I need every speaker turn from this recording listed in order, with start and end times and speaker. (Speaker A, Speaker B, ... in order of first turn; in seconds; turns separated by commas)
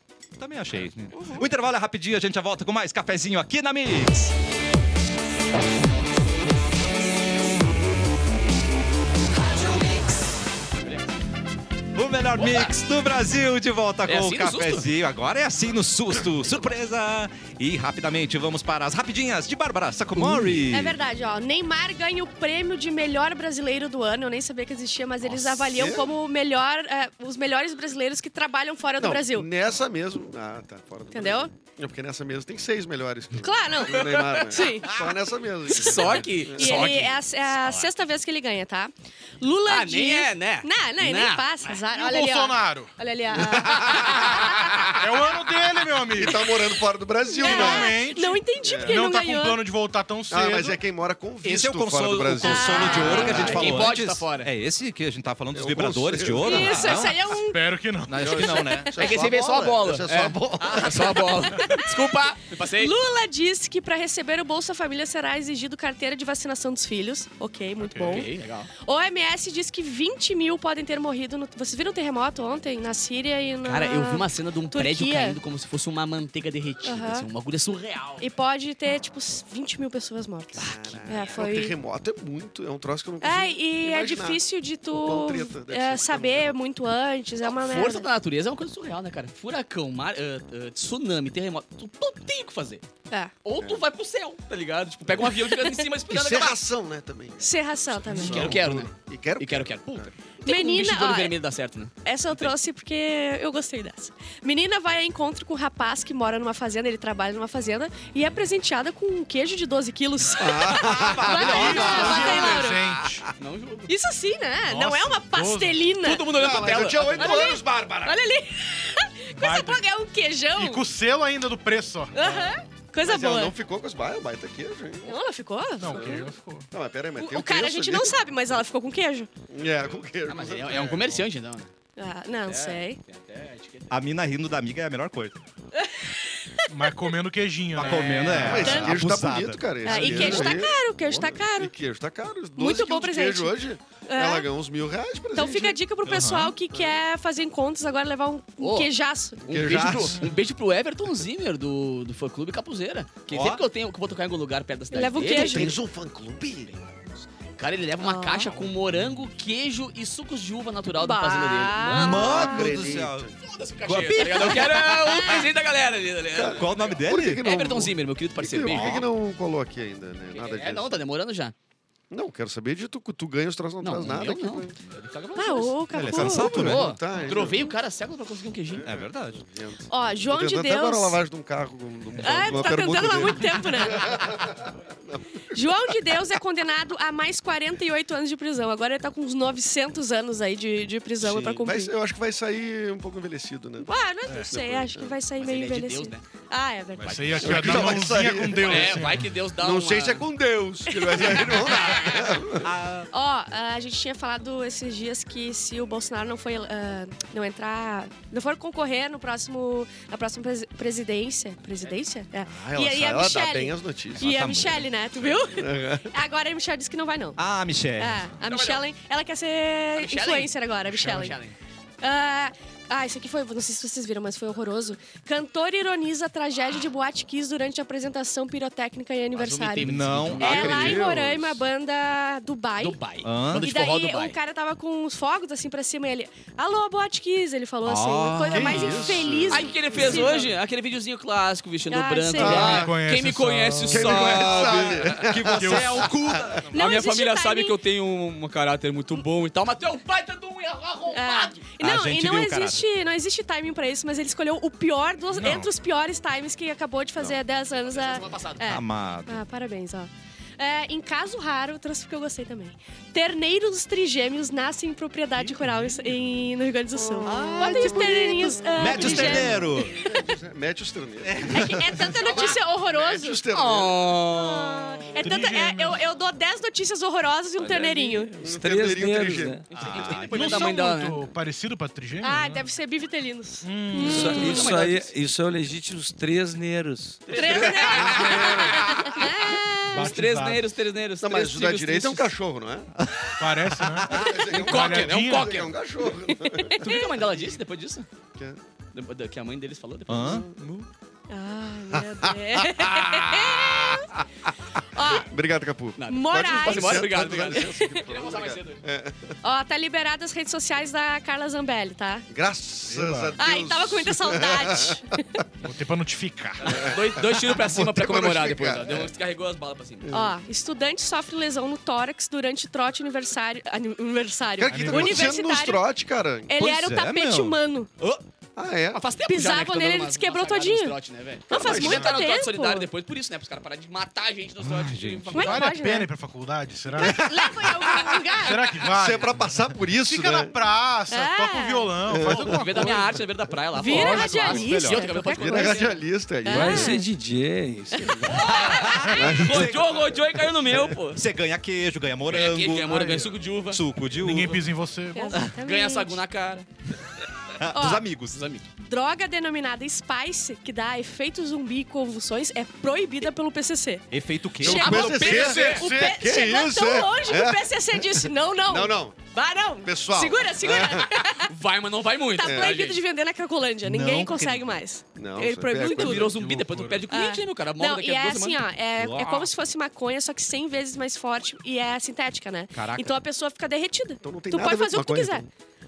Speaker A: 0.4-4.3, Speaker B: 10.7-11.1, Speaker A: 11.9-21.0, Speaker B: 12.3-12.7, Speaker B: 14.1-14.9, Speaker C: 20.7-29.5, Speaker D: 25.6-26.1, Speaker D: 29.0-37.0, Speaker C: 31.1-31.5, Speaker C: 33.4-35.1, Speaker B: 33.9-34.4, Speaker B: 35.7-37.2, Speaker C: 35.7-44.7, Speaker B: 39.7-41.8, Speaker E: 41.9-42.9, Speaker D: 43.3-44.1, Speaker B: 43.4-45.0, Speaker E: 44.8-46.5, Speaker D: 46.1-48.0, Speaker C: 47.3-49.6, Speaker E: 47.4-50.8, Speaker D: 48.6-49.0, Speaker D: 50.3-53.7, Speaker A: 51.4-57.2, Speaker C: 52.4-53.7, Speaker B: 53.0-54.5, Speaker D: 55.5-57.1, Speaker C: 56.4-57.6, Speaker E: 56.9-58.6, Speaker A: 58.1-59.6, Speaker C: 58.2-58.9, Speaker D: 58.3-61.5, Speaker B: 58.9-62.9, Speaker C: 61.5-62.0, Speaker C: 62.7-75.4, Speaker E: 67.8-68.2, Speaker B: 68.0-68.7, Speaker B: 73.6-78.3, Speaker C: 76.8-77.3, Speaker C: 78.2-81.7, Speaker D: 80.6-86.6, Speaker B: 80.6-81.4, Speaker C: 83.2-88.1, Speaker B: 87.4-92.8, Speaker B: 93.4-96.6, Speaker C: 95.4-95.7, Speaker D: 96.1-100.1, Speaker C: 97.4-98.6, Speaker B: 98.1-102.5, Speaker C: 100.4-101.3, Speaker C: 102.0-112.9, Speaker D: 110.3-112.2, Speaker A: 110.7-112.6, Speaker E: 111.3-113.3, Speaker B: 113.4-113.9, Speaker C: 113.9-120.8, Speaker E: 114.7-115.9, Speaker B: 116.0-117.4, Speaker D: 116.3-118.2, Speaker E: 119.3-119.8, Speaker E: 120.5-122.3, Speaker C: 122.1-123.5, Speaker D: 123.0-125.2, Speaker C: 125.0-126.2, Speaker E: 125.8-126.7, Speaker D: 126.7-128.2, Speaker C: 127.2-129.3, Speaker D: 129.5-131.1, Speaker B: 130.2-131.7, Speaker C: 132.0-133.0, Speaker B: 132.4-133.9, Speaker A: 133.9-135.4, Speaker C: 135.8-137.0, Speaker E: 136.7-138.8, Speaker A: 137.7-140.5, Speaker D: 138.3-145.8, Speaker C: 138.4-139.0, Speaker C: 139.8-141.7, Speaker B: 140.1-140.5, Speaker C: 142.6-143.5, Speaker C: 144.1-144.5, Speaker C: 145.3-149.7, Speaker A: 146.0-146.5, Speaker D: 146.7-147.0, Speaker B: 148.6-148.9, Speaker B: 149.4-155.8, Speaker D: 149.5-150.2, Speaker A: 153.3-153.6, Speaker C: 154.9-155.7, Speaker D: 155.2-156.7, Speaker B: 156.7-162.3, Speaker C: 158.0-158.6, Speaker C: 161.0-162.7, Speaker A: 161.9-163.3, Speaker D: 161.9-163.3, Speaker B: 163.4-169.1, Speaker A: 163.8-165.3, Speaker C: 164.2-165.5, Speaker D: 166.3-171.0, Speaker A: 166.5-167.4, Speaker A: 168.7-169.1, Speaker B: 170.3-171.5, Speaker D: 172.1-174.8, Speaker B: 173.8-175.8, Speaker C: 175.3-176.8, Speaker A: 175.9-176.9, Speaker D: 176.0-177.7, Speaker B: 176.5-178.9, Speaker D: 178.7-185.9, Speaker A: 178.8-179.4, Speaker C: 179.9-181.2, Speaker C: 182.2-184.2, Speaker C: 185.5-191.9, Speaker D: 191.2-195.2, Speaker C: 193.8-197.9, Speaker B: 195.4-196.2, Speaker B: 197.0-198.0, Speaker E: 197.0-199.3, Speaker D: 197.4-202.7, Speaker B: 198.6-200.2, Speaker C: 200.9-202.3, Speaker A: 202.6-203.1, Speaker C: 203.1-217.4, Speaker D: 212.5-214.3, Speaker A: 214.2-215.5, Speaker D: 215.5-216.1, Speaker A: 217.4-218.3, Speaker C: 218.0-221.4, Speaker B: 218.4-218.8, Speaker B: 219.9-221.5, Speaker C: 222.0-240.5, Speaker B: 229.3-231.0, Speaker A: 229.8-231.1, Speaker D: 230.3-231.6, Speaker B: 232.8-234.4, Speaker A: 233.2-233.7, Speaker A: 237.8-239.3, Speaker D: 238.5-240.4, Speaker B: 239.5-245.3, Speaker C: 241.9-242.8, Speaker D: 242.3-242.9, Speaker E: 242.4-244.4, Speaker D: 243.9-246.6, Speaker A: 244.3-246.8, Speaker E: 245.5-246.1, Speaker C: 246.7-247.8, Speaker B: 246.7-251.6, Speaker C: 251.1-270.2, Speaker A: 251.8-252.8, Speaker E: 255.3-255.7, Speaker B: 257.7-258.8, Speaker A: 258.7-259.4, Speaker E: 265.4-265.8, Speaker D: 267.0-274.1, Speaker A: 267.2-268.2, Speaker A: 268.7-270.0, Speaker A: 271.2-272.4, Speaker C: 271.5-273.4, Speaker B: 272.2-272.6, Speaker B: 273.5-274.9, Speaker C: 274.3-278.3, Speaker E: 275.1-276.0, Speaker F: 277.6-279.6, Speaker D: 278.4-279.6, Speaker B: 279.7-281.2, Speaker A: 279.7-280.8, Speaker E: 280.3-282.7, Speaker C: 282.2-284.7, Speaker E: 283.6-284.6, Speaker F: 284.0-287.3, Speaker B: 284.0-285.1, Speaker B: 287.3-289.2, Speaker C: 287.3-290.1, Speaker D: 287.4-288.9, Speaker E: 289.9-290.6, Speaker B: 289.9-292.3, Speaker D: 291.2-292.9, Speaker A: 293.0-294.3, Speaker E: 293.4-295.6, Speaker D: 294.0-297.6, Speaker B: 294.5-295.7, Speaker C: 296.3-297.1, Speaker B: 296.8-298.1, Speaker B: 298.9-300.8, Speaker A: 300.1-300.4, Speaker D: 300.2-300.5, Speaker C: 301.3-304.2, Speaker D: 301.9-304.2, Speaker C: 304.9-305.3, Speaker D: 305.0-309.4, Speaker B: 306.0-308.8, Speaker C: 306.1-308.1, Speaker C: 309.4-312.2, Speaker D: 312.3-315.4, Speaker E: 312.9-313.4, Speaker C: 313.4-315.4, Speaker E: 315.6-316.9, Speaker D: 316.6-319.1, Speaker B: 316.7-320.2, Speaker D: 320.0-320.3, Speaker C: 320.1-325.8, Speaker D: 324.6-326.5, Speaker E: 324.7-325.4, Speaker C: 326.5-327.9, Speaker A: 326.6-327.6, Speaker D: 328.6-329.0, Speaker B: 328.9-335.6, Speaker C: 329.3-330.9, Speaker C: 331.5-332.9, Speaker D: 331.5-332.2, Speaker A: 334.6-335.3, Speaker E: 335.3-337.3, Speaker C: 335.3-336.1, Speaker C: 336.9-338.8, Speaker D: 337.0-338.0, Speaker E: 338.4-339.4, Speaker D: 338.8-340.5, Speaker E: 340.0-343.2, Speaker C: 341.1-341.9, Speaker D: 342.1-342.9, Speaker B: 342.3-346.0, Speaker C: 343.7-345.9, Speaker A: 343.9-345.1, Speaker D: 345.4-347.0, Speaker C: 346.4-347.0, Speaker F: 346.4-348.6, Speaker C: 347.9-348.9, Speaker B: 348.2-351.2, Speaker A: 348.5-350.2, Speaker D: 349.1-349.9, Speaker A: 351.1-354.6, Speaker B: 352.3-353.8, Speaker E: 354.2-355.4, Speaker C: 355.1-356.2, Speaker B: 355.6-356.7, Speaker A: 357.5-358.4, Speaker C: 357.7-358.0, Speaker B: 358.3-358.7, Speaker C: 358.8-364.1, Speaker A: 364.1-365.0, Speaker D: 364.6-369.2, Speaker C: 364.6-371.5, Speaker B: 364.6-365.9, Speaker E: 365.1-366.2, Speaker D: 369.8-371.1, Speaker B: 370.7-373.0, Speaker C: 372.3-376.3, Speaker D: 372.4-372.8, Speaker A: 373.8-374.7, Speaker D: 375.1-376.3, Speaker B: 375.8-378.6, Speaker E: 376.2-377.1, Speaker C: 377.1-385.4, Speaker A: 379.0-379.5, Speaker A: 382.7-383.2, Speaker D: 384.2-385.5